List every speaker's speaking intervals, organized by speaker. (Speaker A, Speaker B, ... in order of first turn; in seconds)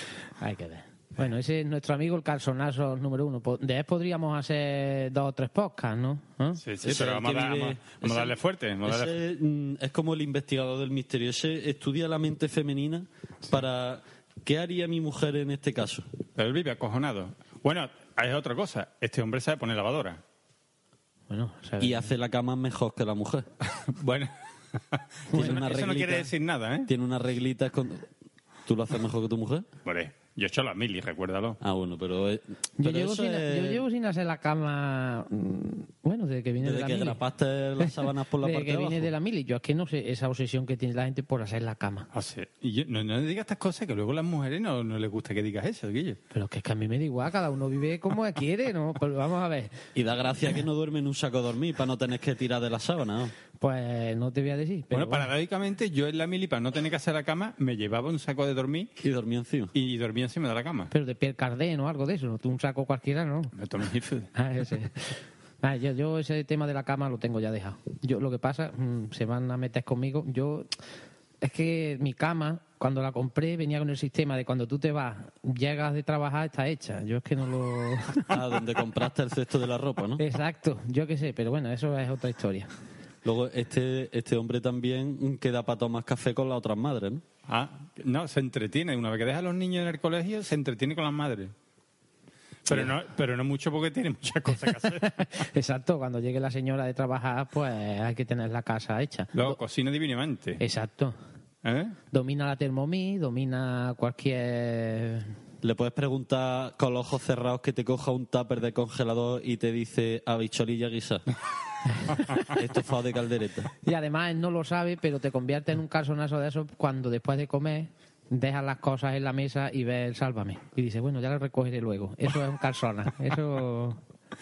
Speaker A: 0.4-6.6, 21.3-22.1, 25.3-25.6, 32.8-37.2, 37.8-42.1, 46.3-49.8, 53.6-55.3, 60.9-63.5, 64.4-70.7, 71.4-78.6, 80.2-82.7, 94.8-99.6, 100.6-101.2, 102.1-105.3, 113.8-124.0
Speaker B: 6.6-9.1, 16.4-20.2, 23.8-24.3, 24.9-26.9, 29.9-31.6, 42.1-46.2, 54.9-58.9, 59.7-60.9, 63.5-64.3, 87.5-91.5, 92.7-95.2, 99.3-100.6, 101.6-102.0
Speaker C: 6.8-16.1, 21.8-23.5, 25.3-26.3, 26.9-28.1, 28.7-29.7, 31.6-33.8, 36.6-39.1, 50.0-53.3, 59.0-59.7, 78.3-80.2, 83.2-87.2, 105.6-111.3, 112.4-113.7